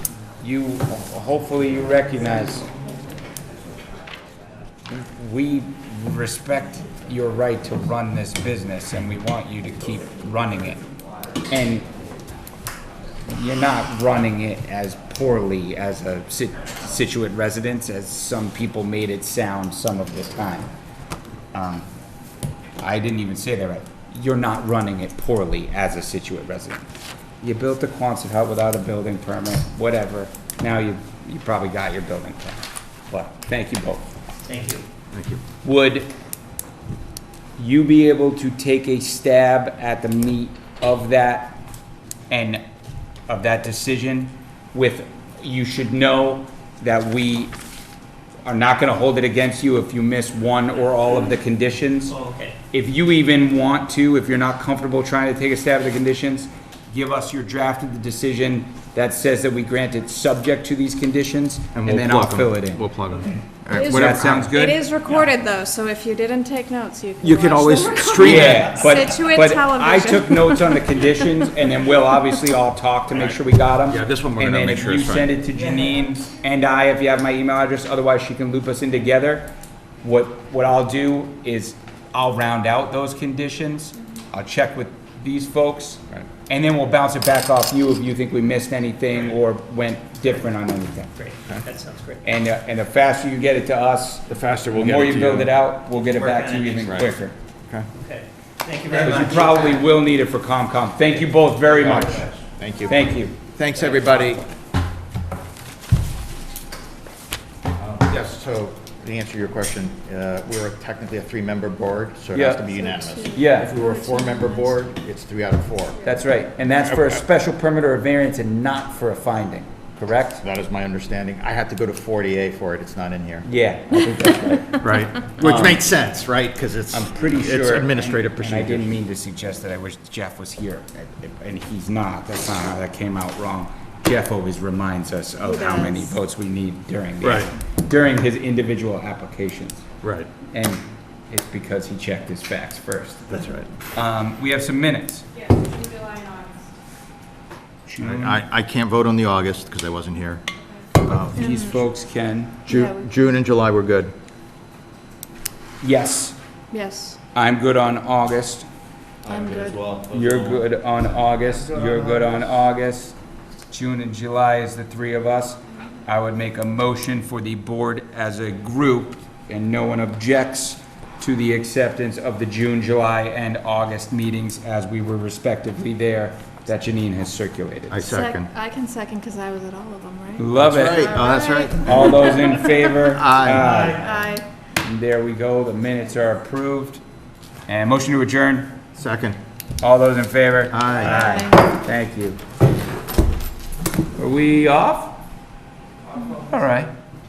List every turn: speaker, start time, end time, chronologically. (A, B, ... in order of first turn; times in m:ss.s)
0:00.4-0:02.7 A
0:04.9-0:10.8 A
0:11.5-0:11.8 A
0:13.3-0:20.7 A
0:21.5-0:21.9 A
0:22.8-0:26.8 A
0:27.4-0:34.0 A
0:34.4-0:34.8 B
0:35.1-0:35.4 C
0:35.6-0:36.1 A
0:37.6-0:41.6 A
0:42.3-0:42.6 A
0:43.3-0:47.5 A
0:48.4-0:52.2 A
0:52.1-0:52.6 B
0:52.7-1:02.9 A
1:01.7-1:04.7 C
1:03.8-1:04.8 A
1:03.8-1:10.8 D
1:07.2-1:08.7 C
1:08.2-1:31.1 A
1:13.9-1:15.4 C
1:15.6-1:15.9 B
1:31.2-1:32.2 B
1:32.2-1:37.3 A
1:34.3-1:35.5 C
1:35.9-1:37.0 B
1:36.9-1:37.1 C
1:38.0-1:39.8 B
1:38.9-1:42.2 A
1:41.7-1:44.4 C
1:41.9-1:42.2 B
1:42.9-1:43.3 A
1:47.8-1:56.0 C
1:52.3-1:52.7 A
1:52.7-1:54.7 D
1:53.3-1:53.7 A
1:56.0-2:00.4 A
1:56.8-1:57.2 C
2:00.4-2:03.5 C
2:03.4-2:05.8 A
2:04.7-2:08.9 C
2:06.9-2:19.8 A
2:15.4-2:16.1 D
2:17.2-2:17.5 C
2:20.0-2:20.3 C
2:20.5-2:23.3 A
2:23.3-2:23.7 C
2:23.9-2:25.2 A
2:25.4-2:26.6 D
2:27.9-2:28.4 A
2:28.0-2:30.4 C
2:31.0-2:31.8 C
2:31.0-2:32.6 A
2:32.6-2:34.1 C
2:32.7-2:33.0 D
2:35.8-2:36.4 A
2:36.7-2:37.2 D
2:37.3-2:38.6 A
2:39.2-2:40.6 C
2:39.3-2:39.8 D
2:40.1-2:43.2 A
2:41.7-2:42.4 C
2:43.7-2:58.0 A
2:57.9-2:58.5 C
2:58.0-3:02.7 D
3:00.4-3:01.2 A
3:00.6-3:03.7 C
3:01.8-3:04.1 A
3:03.5-3:04.1 B
3:03.7-3:04.4 D
3:04.8-3:07.0 A
3:07.7-3:08.8 A
3:08.9-3:09.4 C
3:09.8-3:12.4 A
3:10.7-3:11.2 C
3:11.0-3:11.5 D
3:14.1-3:15.1 A
3:16.3-3:16.9 A